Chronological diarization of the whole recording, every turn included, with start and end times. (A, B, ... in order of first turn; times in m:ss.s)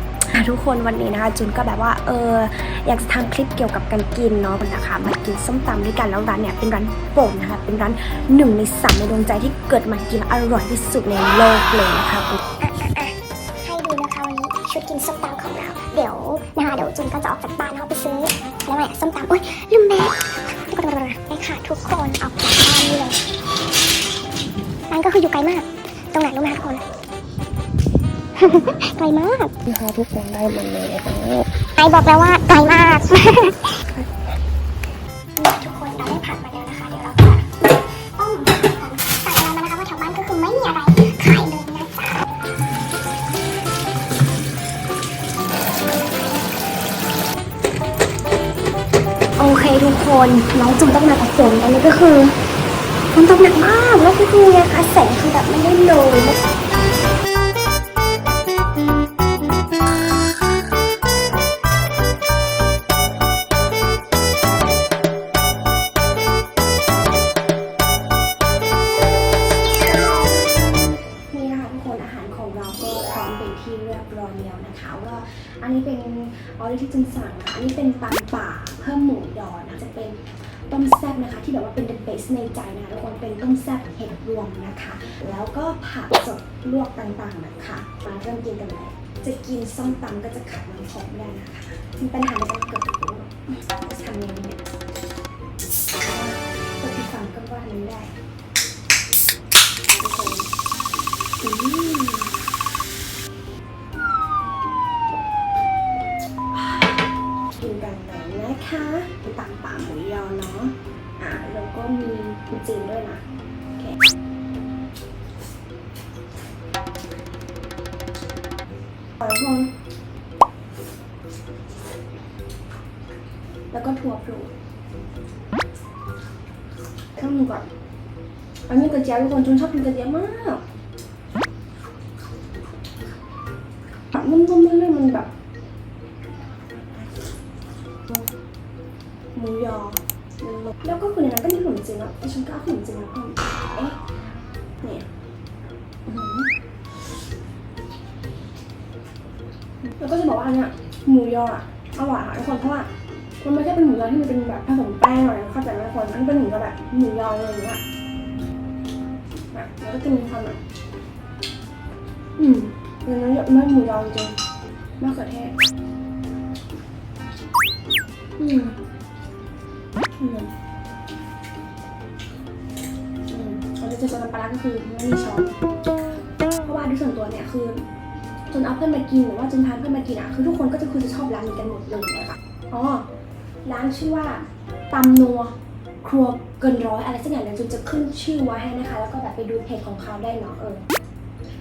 0:00.3-0:12.4 A
0:12.6-0:23.2 B
0:24.9-0:26.8 B
0:28.4-0:29.5 B
0:29.7-0:31.5 A
0:31.7-0:33.7 B
0:33.8-0:34.1 A
0:35.4-0:42.2 B
0:49.4-0:51.9 A
0:51.0-0:52.3 B
0:53.1-0:56.1 A
0:54.5-0:56.3 B
1:09.9-1:34.7 A
1:36.0-1:38.1 A
1:39.9-1:40.5 A
1:41.4-1:42.3 A
1:46.5-1:47.0 A
1:47.6-1:53.2 A
1:59.2-1:59.7 A
2:03.7-2:04.5 A
2:07.1-2:07.7 A
2:08.7-2:10.6 A
2:14.1-2:15.3 A
2:19.3-2:24.0 A
2:24.8-2:25.1 A
2:26.0-2:26.5 A
2:29.8-2:32.9 A
2:33.4-2:37.8 A
2:39.5-2:40.6 A
2:42.4-2:44.4 A
2:45.0-2:45.5 A
2:48.4-2:48.8 A
2:50.2-2:50.5 A
2:53.3-2:55.6 A
2:56.6-2:57.8 A
2:58.5-3:03.1 A
3:03.6-3:10.8 A